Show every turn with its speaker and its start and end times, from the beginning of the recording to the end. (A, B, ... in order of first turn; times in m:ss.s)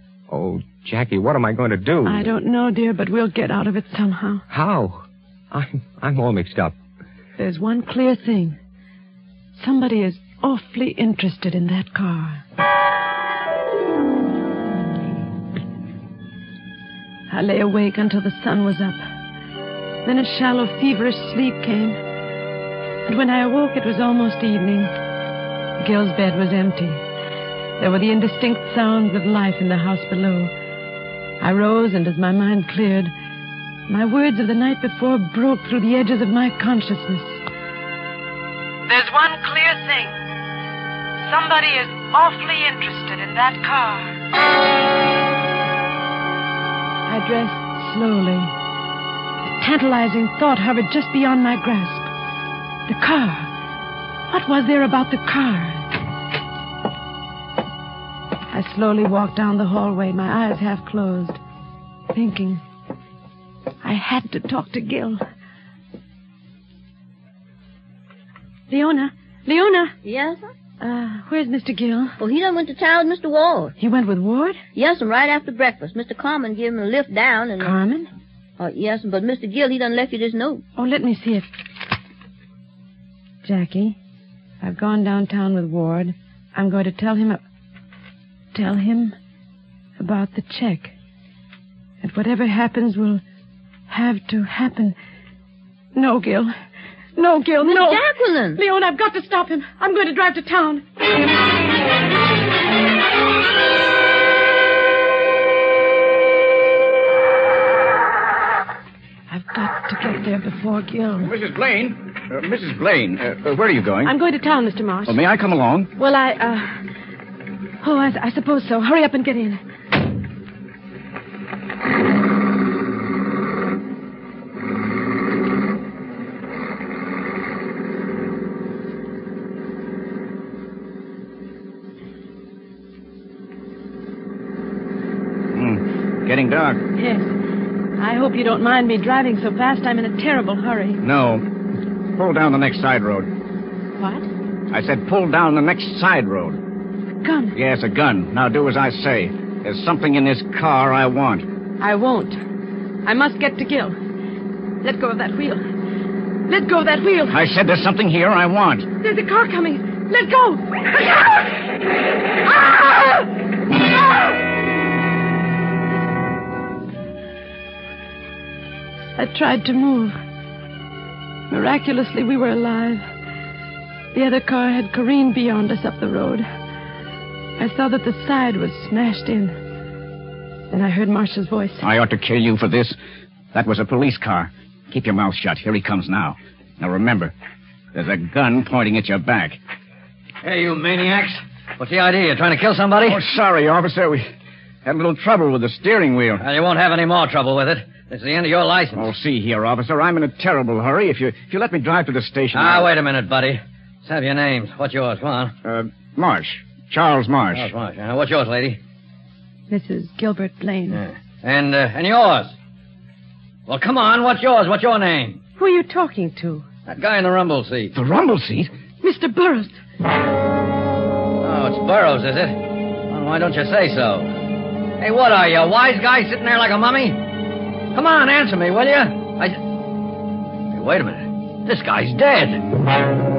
0:00.3-0:02.3 A
0:02.0-0:04.4 B
0:04.5-0:06.7 A
0:07.4-0:08.6 B
0:09.6-0:12.4 B
0:17.3-0:19.0 B
0:20.0-0:22.0 B
0:23.0-0:24.9 B
0:25.8-0:27.0 B
0:27.8-0:30.5 B
0:31.4-0:33.1 B
0:33.9-0:37.4 B
0:38.9-0:40.1 B
0:41.2-0:44.1 B
0:47.0-0:48.5 B
0:49.6-0:52.1 B
0:52.9-0:53.5 B
0:54.3-0:55.9 B
0:58.5-1:01.4 B
1:02.1-1:02.6 B
1:03.8-1:05.2 B
1:08.7-1:09.9 B
1:10.0-1:10.5 C
1:10.8-1:12.2 B
1:12.2-1:13.7 C
1:13.8-1:14.6 B
1:14.7-1:17.8 C
1:17.6-1:18.1 B
1:18.6-1:20.6 C
1:20.8-1:21.5 B
1:23.4-1:24.0 B
1:24.6-1:27.4 B
1:28.5-1:29.1 B
1:30.0-1:30.9 B
1:32.0-1:33.2 B
1:33.9-1:35.0 B
1:35.9-1:36.6 B
1:37.2-1:40.8 B
1:37.6-1:38.6 C
1:49.3-1:51.3 B
1:51.2-1:54.1 D
1:54.0-1:55.2 B
1:55.1-1:55.9 D
1:55.9-1:56.8 B
1:57.8-1:59.6 B
2:15.5-2:16.8 D
2:17.0-2:17.3 B
2:18.0-2:21.0 B
2:21.0-2:21.4 D
2:22.2-2:23.3 D
2:24.0-2:24.3 B
2:24.7-2:26.6 D
2:27.2-2:27.5 B
2:27.5-2:31.4 D
2:31.8-2:32.4 B
2:33.0-2:34.0 B
2:34.8-2:35.6 B
2:36.5-2:37.4 B
2:37.3-2:38.9 D
2:39.0-2:40.6 B
2:49.2-2:50.2 B
2:51.5-2:53.0 B
2:54.1-2:56.4 B
2:57.6-2:59.6 B
3:00.7-3:01.8 B
3:01.8-3:03.0 D
3:03.5-3:07.3 D
3:07.9-3:09.6 D
3:10.4-3:13.2 E
3:13.0-3:14.3 D
3:14.8-3:16.4 D
3:16.4-3:19.1 E
3:18.9-3:22.9 D
3:22.5-3:25.5 E
3:25.6-3:27.7 D
3:27.5-3:28.8 E
3:29.7-3:31.0 B
3:30.9-3:32.6 E
3:33.7-3:35.4 E
3:35.6-3:36.6 B
3:36.9-3:37.9 E
3:37.9-3:38.7 D
3:39.0-3:39.8 B
3:41.4-3:44.3 E
3:45.0-3:47.2 E
3:47.9-3:49.6 E
3:50.7-3:52.7 E